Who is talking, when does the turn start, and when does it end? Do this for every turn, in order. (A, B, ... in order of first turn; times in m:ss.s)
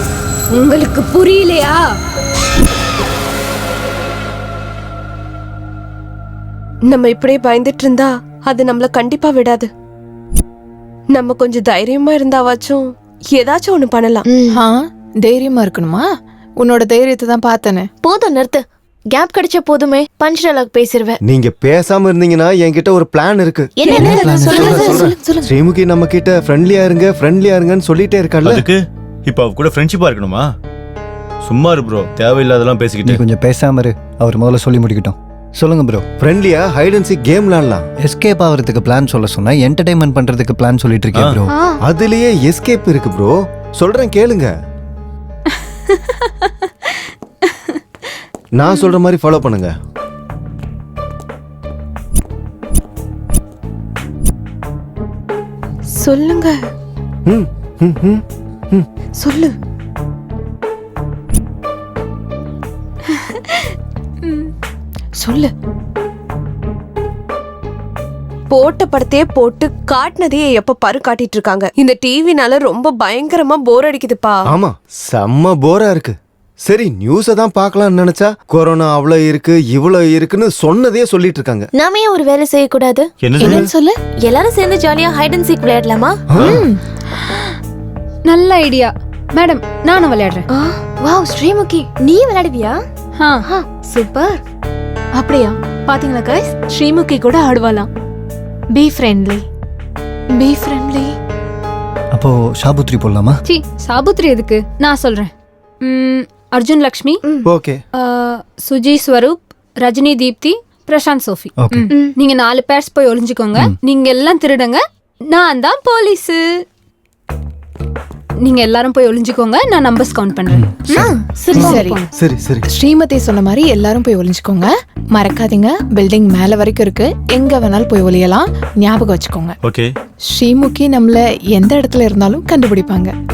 0:00.5-0:01.8 A
0:06.9-0:09.7 B
0:11.1-0:14.2 B
0:14.2-0:14.6 C
0:14.5-0:16.0 D
0:16.6-0:17.9 D
0:18.0-0:21.2 C
0:21.2-0:28.7 E
0:23.8-0:25.0 C
0:23.8-0:25.1 B
0:24.0-0:25.0 F
0:24.3-0:25.5 D
0:28.5-0:30.5 G
0:31.4-0:33.2 G
0:33.0-0:36.0 F
0:36.2-0:37.8 E
0:38.0-0:41.6 F
0:41.8-0:44.5 E
0:45.9-0:46.7 A
0:48.5-0:49.7 E
0:56.0-0:56.6 B
0:57.2-0:58.8 E
0:59.2-0:59.5 B
1:05.2-1:05.5 B
1:08.5-1:14.4 B
1:14.5-1:21.7 E
1:21.7-1:23.1 C
1:23.2-1:23.6 G
1:23.4-1:23.9 D
1:23.4-1:23.6 E
1:24.2-1:26.2 C
1:26.3-1:26.6 E
1:26.4-1:26.8 D
1:28.2-1:30.4 A
1:30.5-1:32.8 C
1:31.2-1:31.8 H
1:33.2-1:33.4 A
1:33.8-1:34.4 H
1:35.1-1:37.9 H
1:38.7-1:39.4 H
1:40.4-1:41.1 H
1:42.1-1:43.4 F
1:43.4-1:45.3 A
1:45.8-1:47.2 A
1:47.4-1:47.8 E
1:47.9-1:56.4 A
1:51.6-1:51.9 F
1:58.4-2:02.1 A
2:00.9-2:01.8 C
2:01.5-2:02.7 E
2:01.6-2:02.0 D
2:02.7-2:09.6 D
2:09.6-2:09.9 G
2:10.3-2:13.1 D